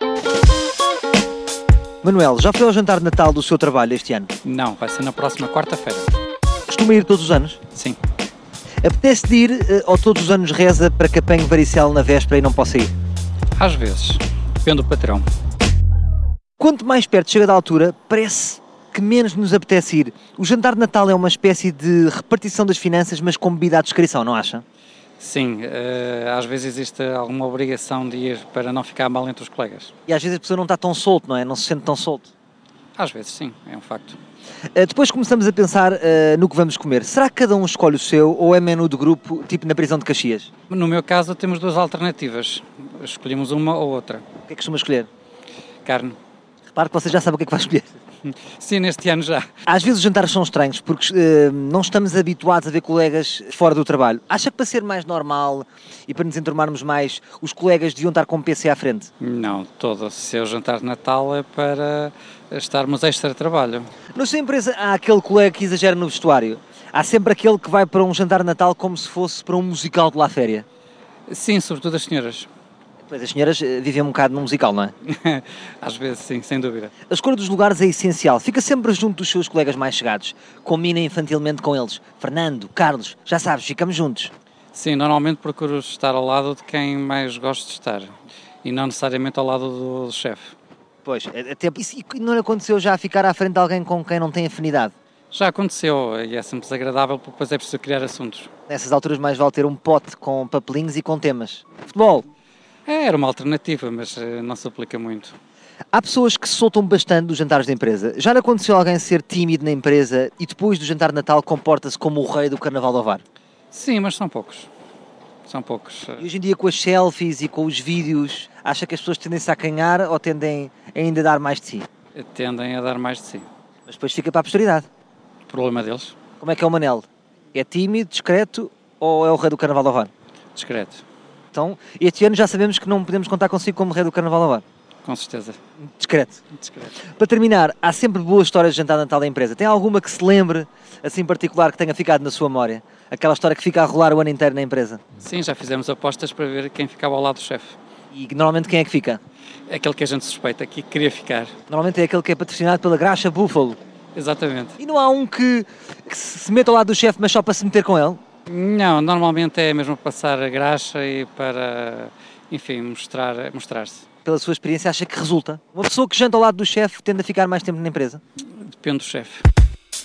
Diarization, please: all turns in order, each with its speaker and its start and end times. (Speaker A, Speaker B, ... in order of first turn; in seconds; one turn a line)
Speaker A: 2.0-4.3
Speaker B: 4.4-6.1
Speaker A: 6.7-7.6
Speaker B: 7.7-8.0
Speaker A: 8.8-12.9
Speaker B: 13.6-15.2
Speaker A: 16.6-24.6
Speaker B: 25.2-29.9
Speaker A: 30.1-32.3
Speaker B: 33.0-34.2
Speaker A: 34.7-40.5
Speaker B: 40.7-44.2
Speaker A: 44.5-45.1
Speaker B: 45.8-46.1
Speaker A: 46.7-47.9
Speaker B: 48.2-49.5
Speaker A: 49.7-59.1
Speaker B: 59.2-63.9
Speaker A: 64.1-70.6
Speaker B: 71.3-72.5
Speaker A: 73.1-74.9
Speaker B: 75.0-76.9
Speaker A: 77.1-84.3
Speaker B: 84.7-88.1
Speaker B: 88.6-90.5
Speaker A: 91.0-94.9
Speaker B: 95.3-98.5
Speaker A: 98.7-102.2
Speaker B: 102.8-105.3
Speaker A: 105.9-113.2
Speaker B: 113.7-114.7
Speaker B: 115.5-116.3
Speaker A: 116.2-121.9
Speaker B: 122.1-123.5
Speaker A: 123.9-124.9
Speaker B: 125.5-126.1
Speaker A: 126.4-130.1
Speaker B: 130.5-131.0
Speaker A: 131.5-134.6
Speaker B: 135.0-135.6
Speaker A: 136.0-136.4
Speaker B: 136.6-136.9
Speaker A: 137.1-145.0
Speaker B: 145.2-147.8
Speaker A: 148.1-149.2
Speaker B: 149.7-151.5
Speaker A: 151.7-153.8
Speaker B: 154.1-154.8
Speaker A: 154.8-158.2
Speaker B: 158.5-164.0
Speaker A: 164.2-168.2
Speaker B: 168.6-169.4